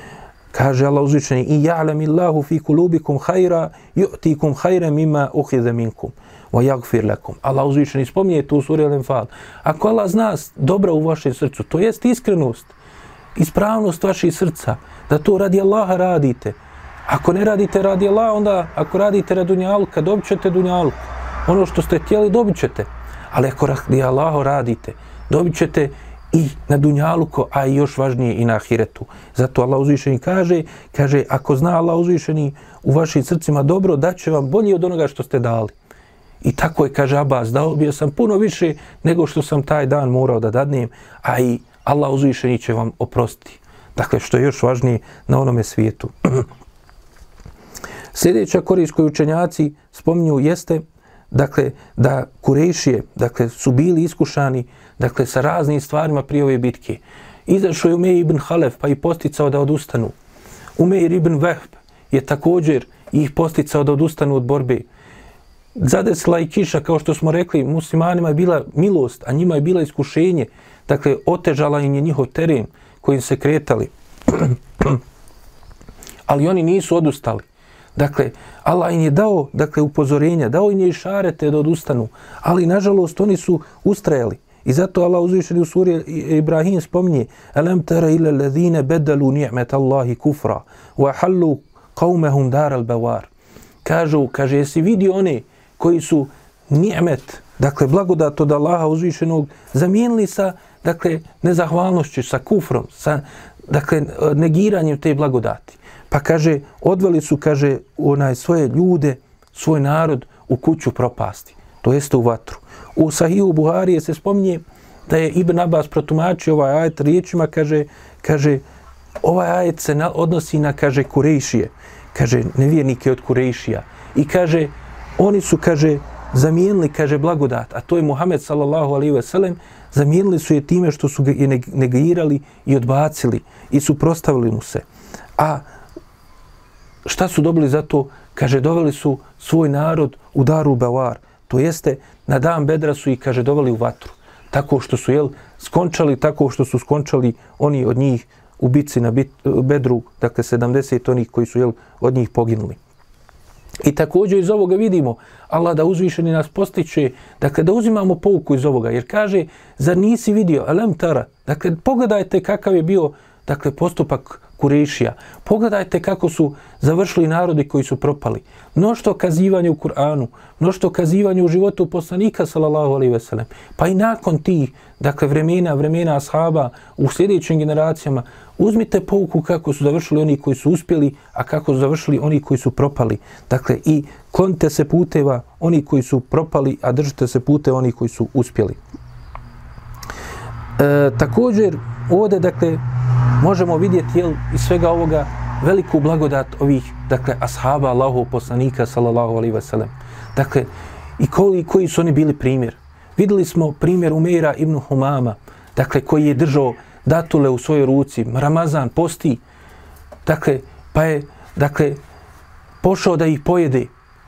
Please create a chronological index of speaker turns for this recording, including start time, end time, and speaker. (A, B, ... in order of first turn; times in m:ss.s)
0:00.5-0:12.7 A
0:13.4-0:35.7 A
0:36.4-0:46.4 A
0:48.1-1:00.1 A
1:00.8-1:04.9 A
1:05.8-1:15.0 A
1:16.3-1:33.3 A
1:33.8-1:58.6 A
1:59.2-2:14.8 A
2:15.4-2:15.6 A
2:17.0-2:32.8 A
2:33.8-3:08.8 A
3:10.8-3:12.8 A
3:13.4-3:29.4 A
3:30.2-3:32.0 A
3:32.8-3:33.9 A